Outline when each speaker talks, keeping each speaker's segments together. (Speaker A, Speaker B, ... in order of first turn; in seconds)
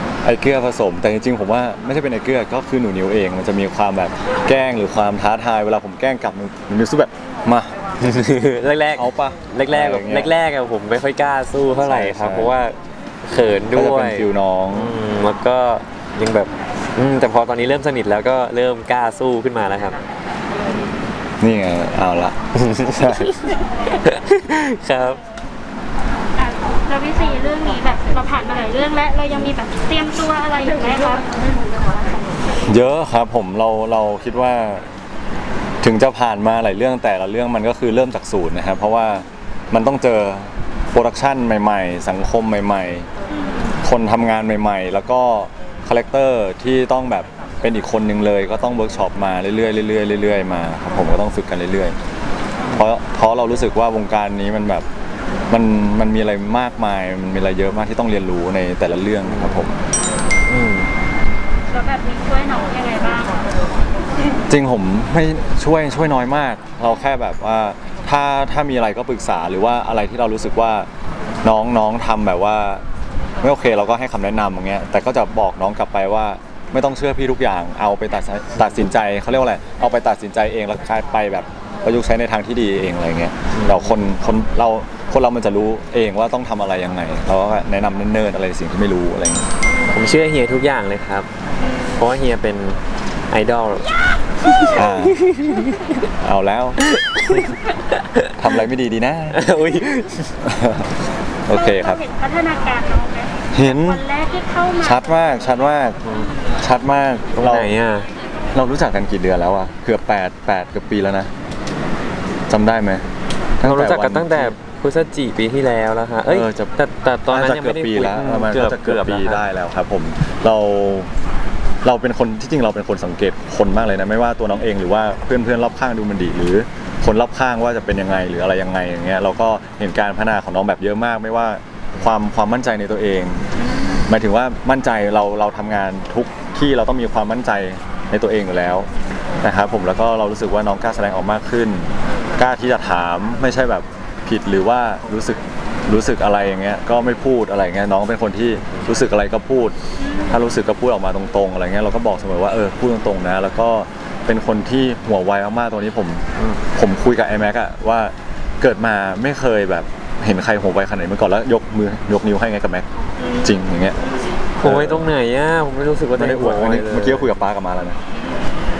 Speaker A: 0.2-7.7, 9.0-10.3, 11.8-12.5, 13.7-14.9, 21.4-22.4, 22.9-23.3, 32.6-34.9, 35.8-43.1, 43.8-52.0, 52.8-54.9, 55.5-59.7, 64.5-70.9, 71.4-72.8, 73.4-89.5, 94.8-95.2, 96.2-96.8, 98.4-99.4, 100.4-100.9, 101.5-102.0, 103.5-104.0, 104.8-106.0, 106.6-107.7, 108.5-111.3, 112.5-113.1, 113.6-114.6, 116.3-116.7, 117.3-121.1, 121.8-133.4, 134.1-138.9, 139.4-149.8, 150.3-162.9, 163.4-164.0, 164.6-165.1, 166.2-168.0
Speaker B: 8.0-20.0, 22.6-25.2, 59.2-59.7, 60.5-60.9, 83.5-84.0, 89.9-91.3, 92.0-92.8, 93.3-93.9, 94.8-96.0, 96.8-98.5, 99.3-100.3, 107.4-108.1, 113.6-119.4, 164.6-167.3
Speaker C: 26.4-31.6, 43.3-43.8, 61.7-63.5, 89.7-90.0, 91.6-92.0, 101.5-106.6, 150.0-150.4, 163.2-164.3